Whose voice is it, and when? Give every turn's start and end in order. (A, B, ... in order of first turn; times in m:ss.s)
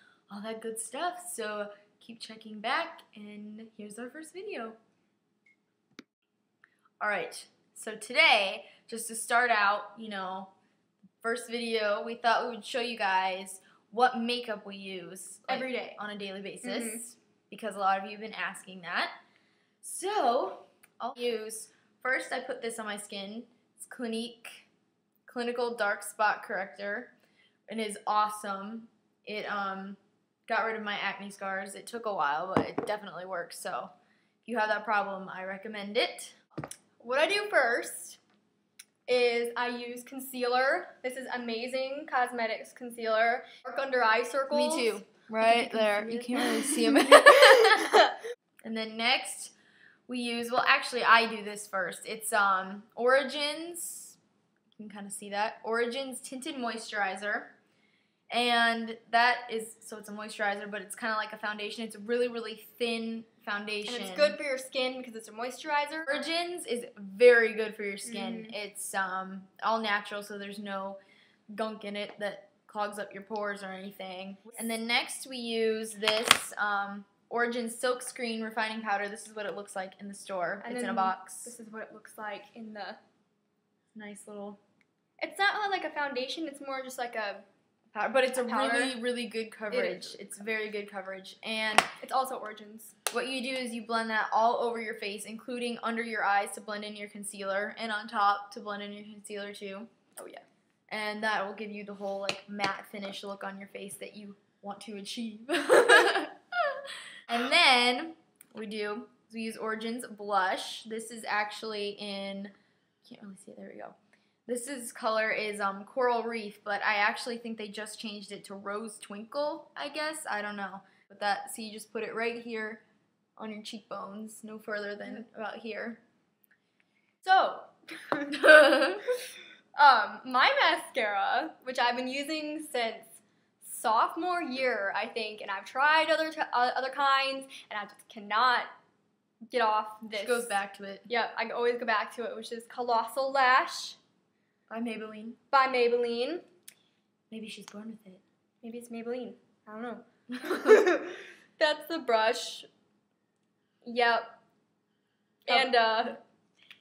0:00.3-0:04.8 A
0:07.0-0:10.5 A
0:11.2-0:19.1 A
0:15.5-0:16.0 B
0:16.6-0:17.0 B
0:19.8-0:24.7 A
0:25.2-0:27.1 A
0:27.7-0:33.9 A
0:34.4-0:36.4 A
0:37.0-0:38.2 B
0:39.1-0:48.1 B
0:44.5-0:48.0 A
0:48.6-0:49.5 A
0:50.1-0:54.2 A
0:54.8-0:57.5 A
0:58.3-1:04.4 A
1:03.8-1:06.1 B
1:06.0-1:11.0 A
1:08.0-1:08.5 B
1:11.5-1:21.5 A
1:20.6-1:23.0 B
1:23.9-1:24.6 A
1:25.2-1:27.4 B
1:27.9-1:31.9 A
1:28.3-1:29.0 B
1:29.7-1:30.3 B
1:32.0-1:32.9 B
1:33.1-1:39.9 A
1:40.1-1:40.4 B
1:40.9-1:46.4 A
1:47.3-1:52.5 A
1:53.0-1:54.0 A
1:54.5-2:02.8 A
2:03.4-2:06.0 A
2:07.2-2:08.6 B
2:08.3-2:09.0 A
2:09.7-2:18.7 B
2:19.5-2:24.0 B
2:20.0-2:21.1 A
2:24.7-2:25.4 A
2:25.5-2:26.4 B
2:27.3-2:28.2 A
2:28.6-2:32.7 B
2:30.3-2:30.8 A
2:33.8-2:34.4 B
2:35.5-2:36.2 B